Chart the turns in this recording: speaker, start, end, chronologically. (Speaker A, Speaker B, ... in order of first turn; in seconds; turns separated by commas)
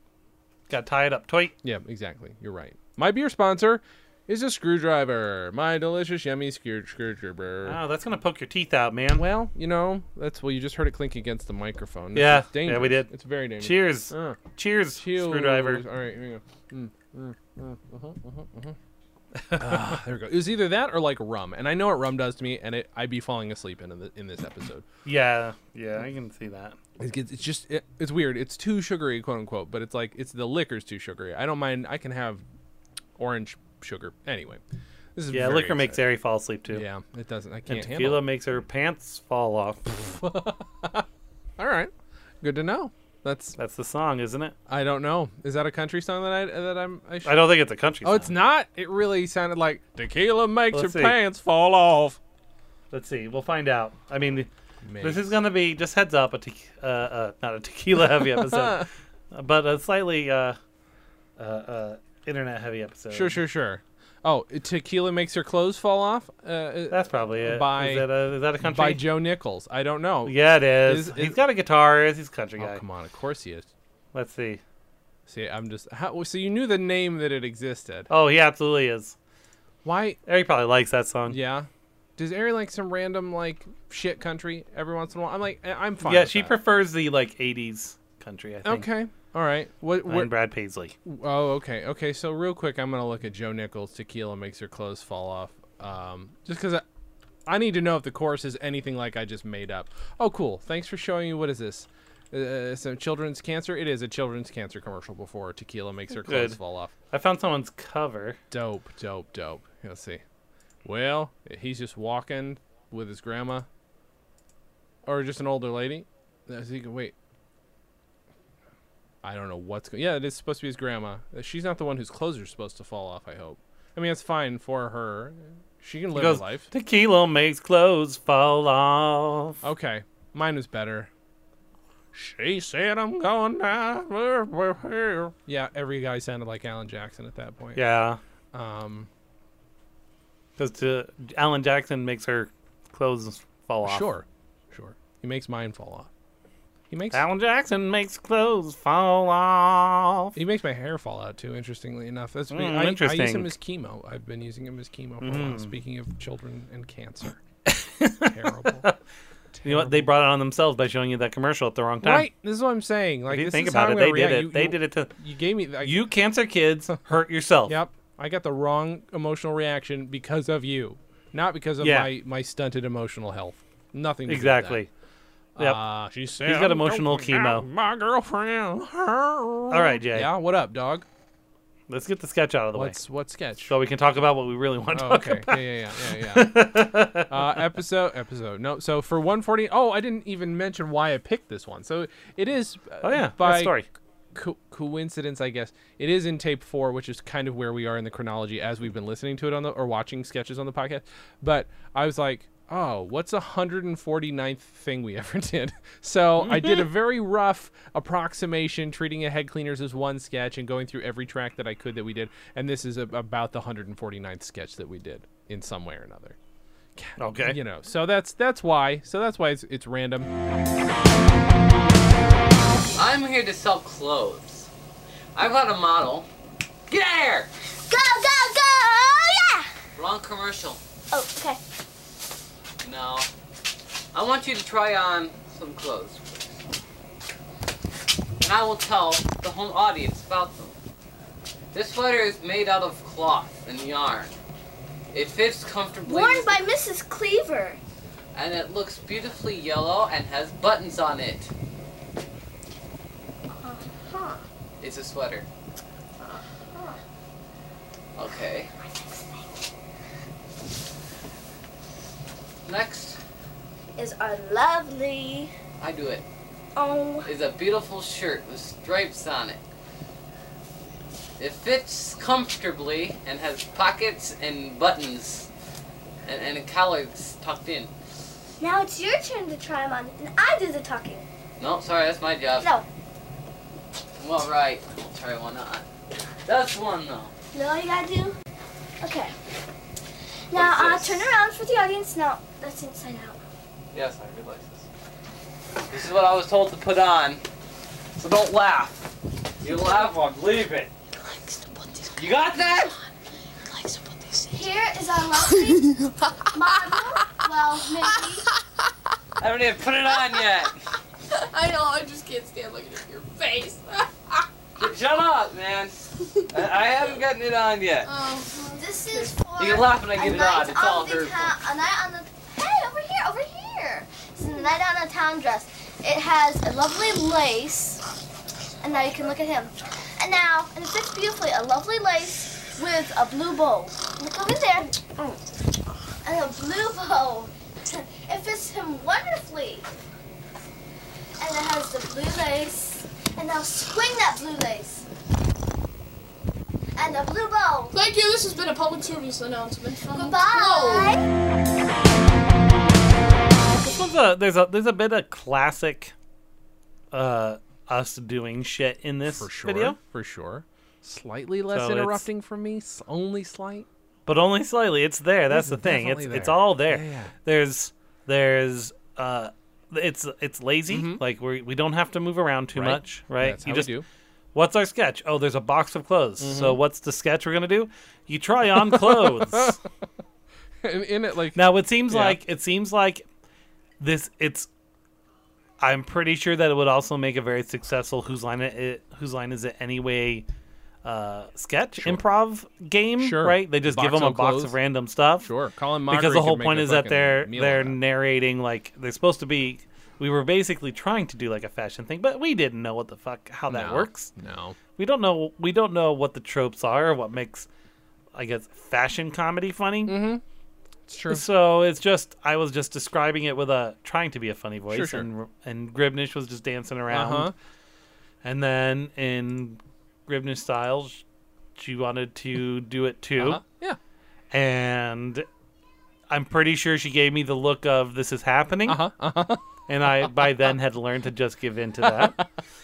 Speaker A: 0.7-1.5, Speaker B: 1.6-7.8, Speaker A: 7.6-9.3, Speaker B: 9.1-14.4, Speaker A: 12.1-15.8, Speaker B: 14.9-18.8, Speaker A: 19.4-19.9, Speaker B: 19.5-24.8, Speaker A: 25.0-26.8, Speaker B: 27.0-32.4, Speaker B: 33.2-34.6, Speaker B: 35.1-36.0, Speaker A: 35.3-36.8, Speaker B: 36.7-38.3, Speaker A: 37.7-40.1, Speaker B: 40.0-41.0, Speaker B: 41.6-43.5, Speaker A: 43.5-44.5, Speaker B: 44.7-47.5, Speaker A: 47.2-48.4, Speaker B: 48.0-52.2, Speaker A: 50.7-51.2, Speaker A: 52.9-60.6, Speaker B: 54.9-55.4, Speaker B: 58.5-58.8, Speaker A: 61.4-63.4, Speaker B: 63.1-68.1, Speaker A: 66.9-69.0, Speaker B: 68.6-71.4, Speaker A: 70.2-72.8, Speaker B: 72.6-73.7, Speaker A: 74.1-74.6, Speaker B: 75.3-78.1, Speaker A: 78.1-79.2, Speaker B: 79.8-80.2, Speaker A: 80.2-81.4, Speaker B: 81.3-86.5, Speaker A: 86.0-88.9, Speaker B: 88.6-90.3, Speaker A: 90.1-90.9, Speaker B: 91.0-96.8, Speaker B: 97.5-106.9, Speaker A: 106.1-106.6, Speaker A: 107.1-108.4, Speaker B: 108.5-110.2, Speaker B: 110.8-113.7, Speaker B: 115.0-117.1, Speaker B: 119.2-126.7, Speaker A: 126.1-129.6, Speaker B: 129.6-131.1, Speaker B: 132.1-137.8, Speaker A: 137.8-138.2, Speaker B: 138.5-139.1, Speaker A: 140.6-144.1, Speaker B: 143.8-146.1, Speaker B: 146.9-147.2, Speaker A: 147.1-150.3, Speaker B: 150.3-157.4, Speaker A: 152.5-153.5, Speaker A: 155.2-155.7, Speaker A: 157.7-158.9, Speaker B: 158.2-158.8, Speaker B: 159.5-160.1, Speaker A: 159.6-162.3, Speaker B: 162.0-166.0, Speaker A: 163.3-165.1, Speaker A: 165.8-167.8, Speaker B: 167.7-174.8, Speaker A: 171.8-172.1, Speaker A: 174.3-174.9, Speaker B: 175.6-181.1, Speaker A: 176.4-177.7, Speaker A: 179.7-180.3, Speaker A: 181.9-183.0, Speaker B: 182.7-183.7, Speaker A: 183.7-187.3, Speaker B: 184.9-186.7, Speaker B: 187.3-193.8, Speaker A: 193.0-193.9, Speaker B: 194.3-216.4, Speaker A: 206.4-206.9, Speaker B: 216.9-220.3, Speaker A: 217.2-217.6, Speaker C: 222.9-224.7, Speaker C: 225.3-226.3, Speaker C: 226.9-227.5, Speaker D: 227.8-229.7, Speaker C: 229.9-230.8, Speaker D: 231.1-231.6, Speaker C: 232.8-233.3, Speaker C: 234.1-236.6, Speaker C: 238.4-240.8, Speaker C: 241.7-244.3, Speaker C: 245.1-246.6, Speaker D: 246.1-247.8, Speaker C: 248.3-251.5, Speaker D: 253.6-254.4, Speaker C: 254.8-255.5, Speaker D: 256.2-257.0, Speaker C: 258.1-258.7, Speaker D: 258.8-259.4, Speaker C: 262.6-263.2, Speaker D: 263.9-265.5, Speaker C: 265.8-266.2, Speaker D: 266.8-267.3, Speaker C: 267.2-269.6, Speaker C: 271.4-275.5, Speaker C: 276.2-277.9, Speaker D: 278.6-281.2, Speaker C: 281.6-282.7, Speaker D: 282.6-282.9, Speaker C: 284.2-285.9, Speaker C: 286.4-287.3, Speaker D: 287.5-288.4, Speaker D: 289.0-289.3, Speaker D: 290.5-293.4, Speaker C: 290.5-291.3, Speaker C: 293.9-294.9, Speaker C: 295.9-297.4, Speaker C: 298.2-300.9, Speaker E: 301.1-303.0, Speaker C: 302.1-302.9, Speaker E: 303.6-304.6, Speaker D: 304.5-305.9, Speaker E: 305.4-307.4, Speaker D: 306.5-308.5, Speaker E: 308.0-308.4, Speaker C: 309.4-310.8, Speaker E: 311.3-314.4, Speaker C: 314.8-318.1, Speaker E: 318.0-319.4, Speaker D: 318.8-328.0, Speaker C: 319.6-321.6, Speaker D: 328.8-335.3, Speaker D: 336.2-339.9, Speaker D: 341.4-345.0, Speaker D: 346.9-347.9, Speaker E: 347.9-351.2, Speaker D: 350.1-351.2, Speaker A: 353.8-356.1, Speaker A: 357.1-360.0, Speaker B: 359.2-363.9, Speaker A: 361.7-362.2, Speaker A: 364.2-373.9, Speaker B: 365.5-367.3, Speaker B: 370.9-371.2, Speaker B: 372.7-374.1, Speaker A: 374.5-379.8, Speaker B: 376.4-376.8, Speaker B: 378.8-379.8, Speaker B: 380.8-382.4, Speaker A: 381.5-383.2, Speaker A: 384.0-384.7, Speaker A: 385.8-390.4, Speaker A: 391.0-395.5, Speaker B: 392.0-392.2, Speaker B: 393.2-394.8, Speaker B: 395.4-398.0, Speaker A: 396.1-404.3, Speaker B: 403.7-404.8, Speaker A: 405.0-407.7, Speaker A: 408.3-410.2, Speaker B: 410.1-410.4, Speaker B: 411.1-411.4, Speaker A: 411.3-417.5, Speaker B: 414.9-415.3, Speaker B: 417.1-417.5, Speaker A: 418.4-421.2, Speaker A: 421.8-423.6, Speaker B: 423.4-424.0, Speaker A: 424.5-425.5, Speaker A: 426.3-429.0, Speaker B: 428.9-429.7, Speaker A: 429.9-432.4, Speaker B: 432.0-432.4